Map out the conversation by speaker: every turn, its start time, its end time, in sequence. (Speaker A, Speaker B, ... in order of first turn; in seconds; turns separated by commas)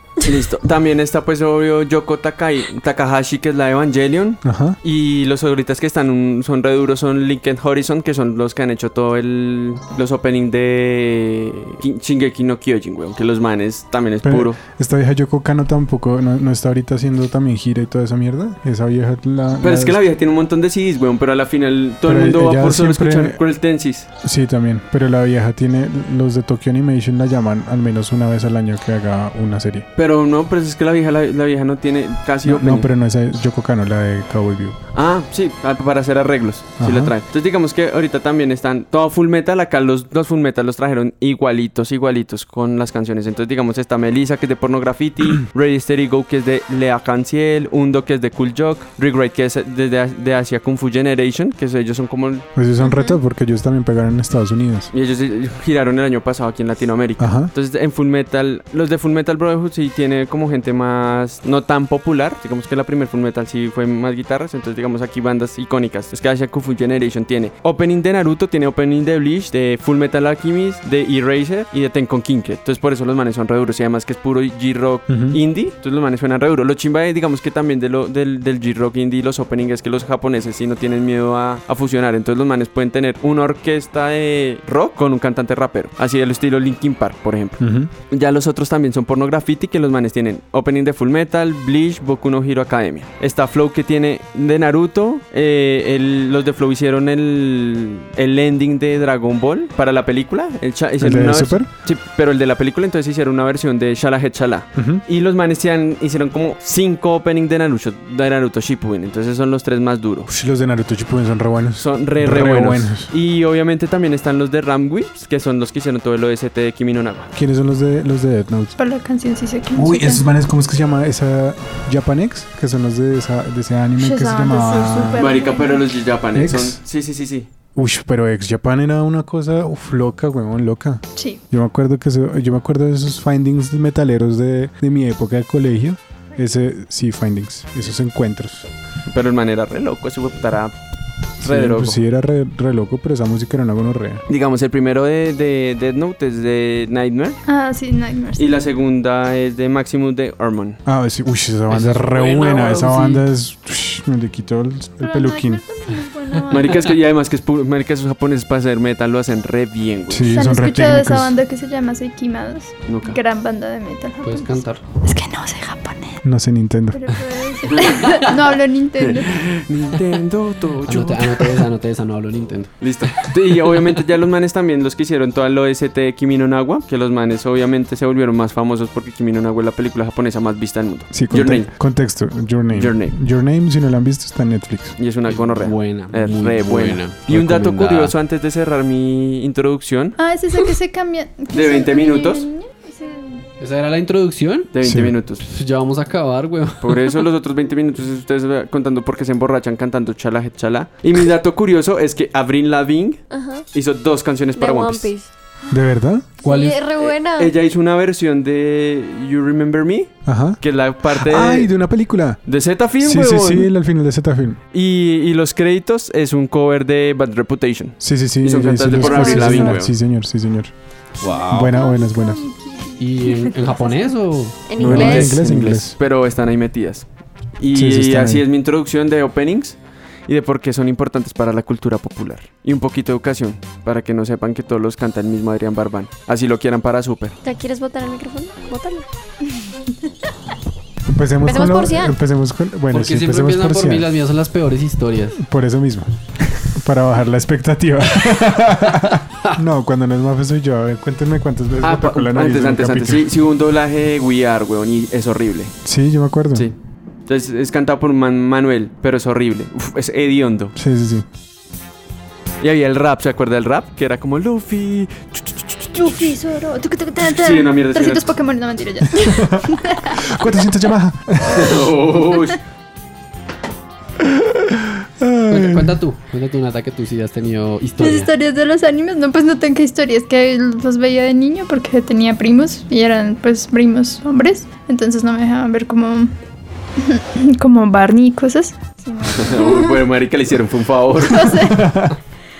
Speaker A: 0.2-14.6, Speaker B: 4.4-4.8, Speaker B: 14.2-20.0, Speaker A: 19.6-24.1, Speaker B: 22.0-23.4, Speaker B: 24.2-29.9, Speaker A: 29.9-32.9, Speaker B: 32.4-34.8, Speaker A: 34.9-52.5, Speaker B: 36.8-37.1, Speaker B: 52.5-54.9, Speaker C: 52.9-53.2, Speaker A: 54.9-110.3, Speaker B: 57.2-57.5, Speaker B: 75.1-75.4, Speaker B: 87.6-87.9, Speaker B: 101.0-101.7, Speaker B: 104.8-105.0, Speaker B: 110.3-113.1, Speaker A: 111.8-117.3, Speaker B: 117.3-118.7, Speaker C: 118.8-120.3, Speaker B: 119.7-125.3, Speaker C: 124.0-125.9, Speaker A: 125.2-127.5, Speaker B: 126.3-126.8, Speaker B: 127.8-138.7, Speaker C: 131.1-131.4, Speaker A: 139.1-140.7, Speaker A: 141.4-142.0, Speaker B: 141.4-144.2, Speaker A: 144.3-147.4, Speaker C: 147.4-148.6, Speaker A: 148.4-150.8, Speaker B: 150.8-155.6, Speaker D: 151.7-153.2, Speaker A: 152.4-152.6, Speaker C: 155.0-157.0, Speaker A: 156.5-160.4, Speaker B: 160.1-161.3, Speaker C: 160.3-166.2, Speaker A: 162.8-163.2, Speaker D: 164.2-164.8, Speaker B: 166.2-167.0, Speaker C: 166.9-169.5, Speaker A: 167.7-168.2, Speaker A: 169.0-171.6, Speaker D: 170.8-172.7, Speaker A: 172.8-181.7, Speaker B: 181.1-184.9, Speaker A: 182.7-183.2, Speaker A: 185.0-190.2, Speaker D: 185.3-188.1, Speaker C: 190.2-193.4, Speaker A: 191.5-192.4, Speaker D: 193.6-194.7, Speaker A: 194.7-195.4, Speaker B: 194.8-195.2, Speaker D: 195.4-197.2, Speaker A: 196.8-205.1, Speaker E: 203.3-203.6, Speaker E: 204.6-205.3, Speaker B: 205.7-206.3, Speaker D: 206.4-206.8, Speaker E: 206.4-207.5, Speaker A: 207.0-211.7, Speaker B: 210.2-212.4, Speaker A: 212.4-213.7, Speaker B: 213.0-214.6, Speaker A: 214.7-219.9, Speaker B: 218.0-220.7, Speaker C: 219.0-219.7, Speaker D: 221.2-221.8, Speaker C: 221.2-224.1, Speaker B: 221.5-222.4, Speaker D: 223.0-224.6, Speaker E: 224.7-225.4, Speaker B: 224.8-225.9, Speaker A: 224.8-227.1, Speaker A: 227.6-237.3, Speaker B: 227.7-228.4, Speaker E: 237.4-239.0, Speaker B: 241.1-244.1, Speaker E: 241.4-242.2, Speaker D: 242.9-245.4, Speaker B: 245.4-246.1, Speaker B: 246.6-253.3, Speaker A: 251.8-255.7, Speaker B: 255.8-256.7, Speaker A: 257.3-260.7, Speaker B: 260.7-261.2, Speaker A: 262.6-266.3, Speaker C: 265.9-270.3, Speaker A: 267.2-268.3, Speaker B: 269.1-271.9, Speaker A: 271.5-272.6, Speaker B: 274.2-276.0, Speaker D: 275.5-278.3, Speaker C: 278.0-286.3, Speaker C: 287.0-290.1, Speaker A: 289.4-291.7, Speaker C: 291.2-292.0, Speaker B: 291.8-292.1